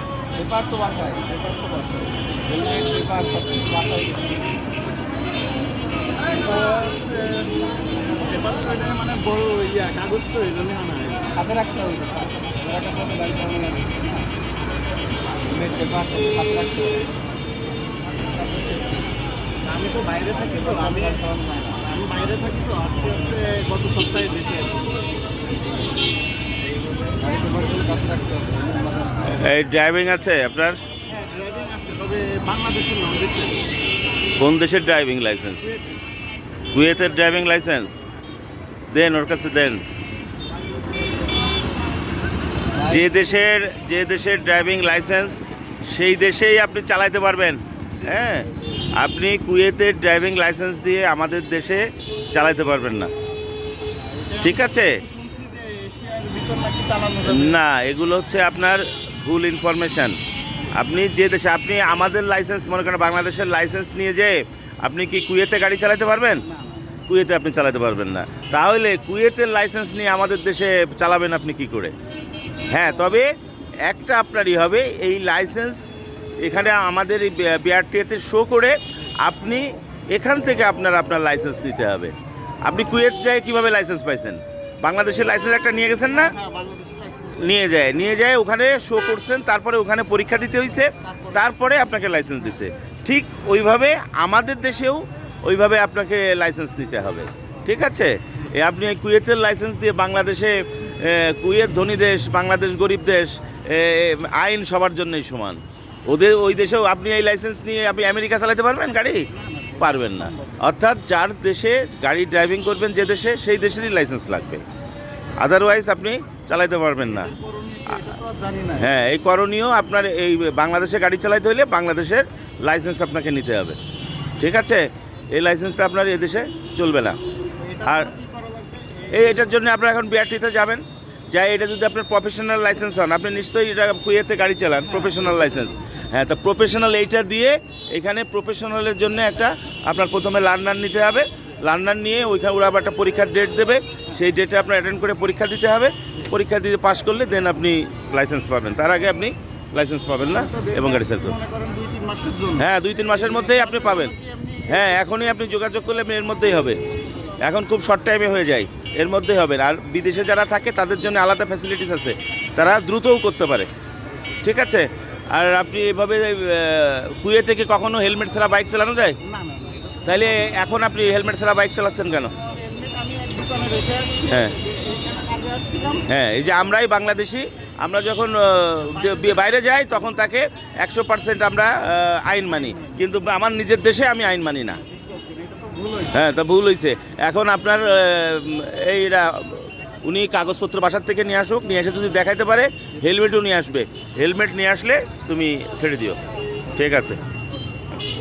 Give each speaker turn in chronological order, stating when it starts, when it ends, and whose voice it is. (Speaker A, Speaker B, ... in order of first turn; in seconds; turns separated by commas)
Speaker A: 0.3-4.6, Speaker B: 6.2-11.4, Speaker A: 11.3-14.2, Speaker A: 15.4-17.2, Speaker A: 18.2-19.1, Speaker B: 19.6-24.9, Speaker A: 20.5-21.8, Speaker A: 27.1-29.4, Speaker C: 29.2-30.8, Speaker B: 31.1-33.6, Speaker C: 34.4-35.7, Speaker B: 35.6-36.0, Speaker C: 36.7-38.0, Speaker C: 38.9-39.8, Speaker C: 42.8-53.1, Speaker B: 54.0-57.6, Speaker C: 54.4-55.0, Speaker C: 57.2-60.2, Speaker C: 60.7-66.4, Speaker B: 66.4-66.9, Speaker C: 67.1-71.9, Speaker C: 72.7-73.3, Speaker C: 73.8-86.3, Speaker B: 86.1-87.6, Speaker C: 87.4-109.3, Speaker B: 91.0-91.5, Speaker B: 109.3-110.6, Speaker C: 109.8-114.6, Speaker C: 115.4-117.3, Speaker B: 117.1-118.9, Speaker C: 118.8-123.8, Speaker C: 124.4-127.2, Speaker B: 127.6-129.5, Speaker C: 127.8-128.1, Speaker C: 129.1-151.3, Speaker B: 134.8-135.4, Speaker B: 150.2-155.0, Speaker C: 152.6-154.1, Speaker C: 154.7-156.8, Speaker C: 157.4-163.7, Speaker C: 164.4-169.2, Speaker B: 169.2-170.4, Speaker C: 170.0-172.3, Speaker B: 172.3-176.1, Speaker C: 174.3-174.6, Speaker C: 176.1-184.8, Speaker B: 178.9-179.8, Speaker B: 182.6-183.0, Speaker B: 184.9-186.2, Speaker C: 186.1-196.2, Speaker C: 196.8-197.2